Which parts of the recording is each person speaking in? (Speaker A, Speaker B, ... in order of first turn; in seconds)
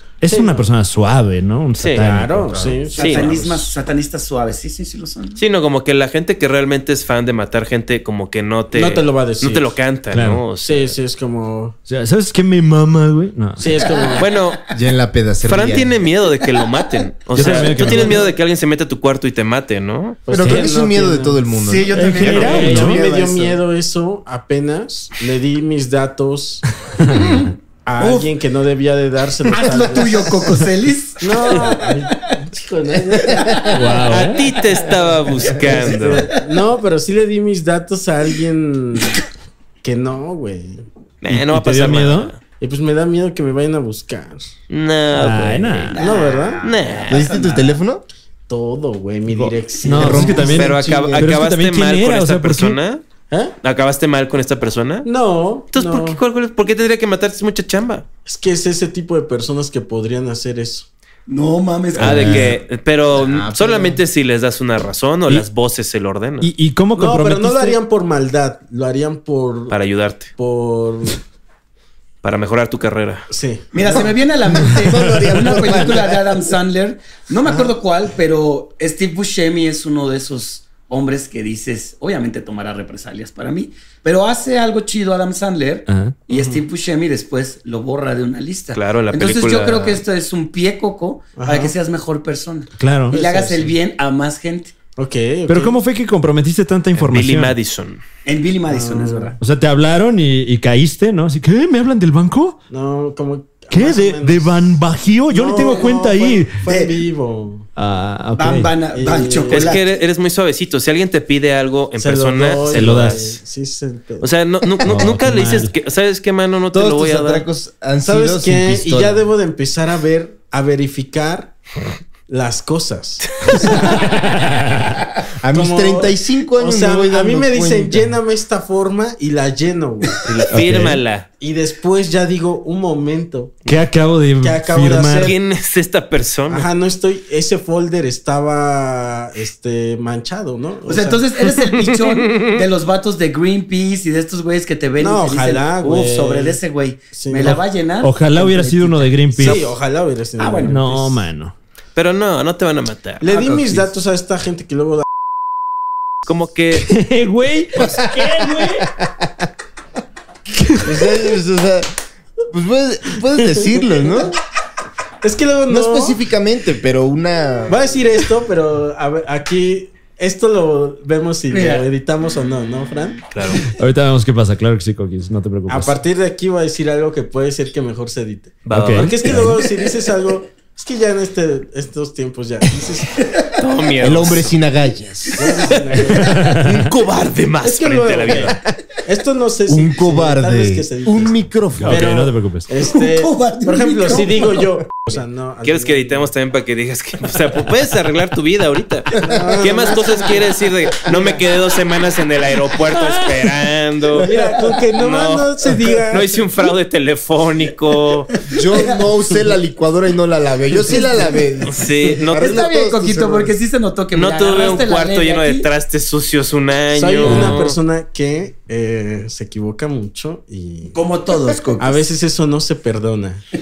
Speaker A: 0.2-2.8, 10.1-10.5, 11.9-13.8, 17.3-18.3, 20.4-20.7, 21.9-23.1, 26.9-27.5, 33.7-34.5, 41.3-42.4, 45.1-46.0, 49.3-52.8, 62.0-62.6, 66.4-67.8, 85.9-86.2, 92.8-93.2, 95.5-97.5, 99.4-102.6, 103.7-106.6, 107.8-108.7, 112.6-113.2, 114.8-115.7, 123.7-125.0, 130.5-131.0, 133.7-135.3, 148.0-149.7, 150.6-151.5, 156.8-158.9, 160.6-160.9, 173.6-176.0, 178.7-179.5, 186.1-186.9, 191.8-192.7, 202.9-203.5, 217.2-217.6
Speaker B: 0.3-0.7, 2.0-3.6, 8.7-9.7, 10.6-11.8, 13.6-14.3, 17.4-18.3, 20.2-21.4, 22.2-26.6, 27.8-30.4, 31.2-33.6, 35.5-39.2, 39.8-40.8, 42.6-44.5, 46.0-46.6, 48.5-50.7, 55.0-56.2, 58.2-60.9, 66.9-69.8, 70.4-71.2, 73.3-74.1, 86.3-86.6, 91.4-91.7, 93.1-93.7, 95.0-95.8, 98.7-99.3, 102.7-104.7, 105.3-107.7, 108.9-109.7, 112.0-114.3, 118.0-121.6, 122.3-124.1, 125.5-130.2, 131.4-133.6, 134.4-135.4, 136.5-141.2, 145.0-146.6, 147.1-147.6, 149.4-151.2, 153.2-155.1, 165.2-166.2, 167.7-173.2, 175.7-183.2, 185.4-186.5, 187.6-191.4, 191.9-196.3, 199.2-200.3, 201.1-201.4, 204.1-206.3, 216.9-220.9, 221.8-223.4
Speaker C: 1.8-2.1, 2.9-3.4, 5.4-10.9, 14.2-14.7, 15.4-20.2, 34.0-36.3, 41.2-42.4, 44.7-46.0, 46.6-47.2, 50.4-53.0, 53.6-55.1, 55.7-58.0, 62.0-66.5, 69.7-70.3, 72.2-73.3, 88.7-90.0, 96.9-98.0, 109.5-113.4, 114.2-117.5, 130.2-131.3, 135.2-136.7, 141.7-142.6, 151.9-153.4, 156.2-156.9, 173.3-173.7, 178.6-179.6, 183.6-184.5, 185.7-188.6, 195.6-204.4, 204.9-208.3, 211.7-212.6, 214.1-217.8
Speaker D: 2.5-3.0, 14.7-16.0, 20.3-23.4, 33.3-33.6, 47.1-48.0, 49.9-51.3, 63.1-64.0, 74.5-76.2, 116.7-119.2, 125.4-128.2, 157.8-159.3, 160.8-161.9, 162.5-164.4, 165.7-167.9, 184.0-185.7, 189.7-192.2, 208.5-213.6
Speaker E: 2.9-5.4, 14.0-14.2, 21.6-23.6, 27.1-28.3, 29.5-32.4, 33.1-33.8, 36.0-36.4, 45.9-47.8, 61.3-62.5, 73.7-94.7, 98.2-99.4, 106.7-107.0, 108.3-109.8, 140.9-149.7, 150.4-150.8, 153.3-153.8, 171.5-171.9, 183.2-183.5, 192.8-194.7, 208.6-209.1, 210.9-211.4, 212.3-215.7, 220.9-222.1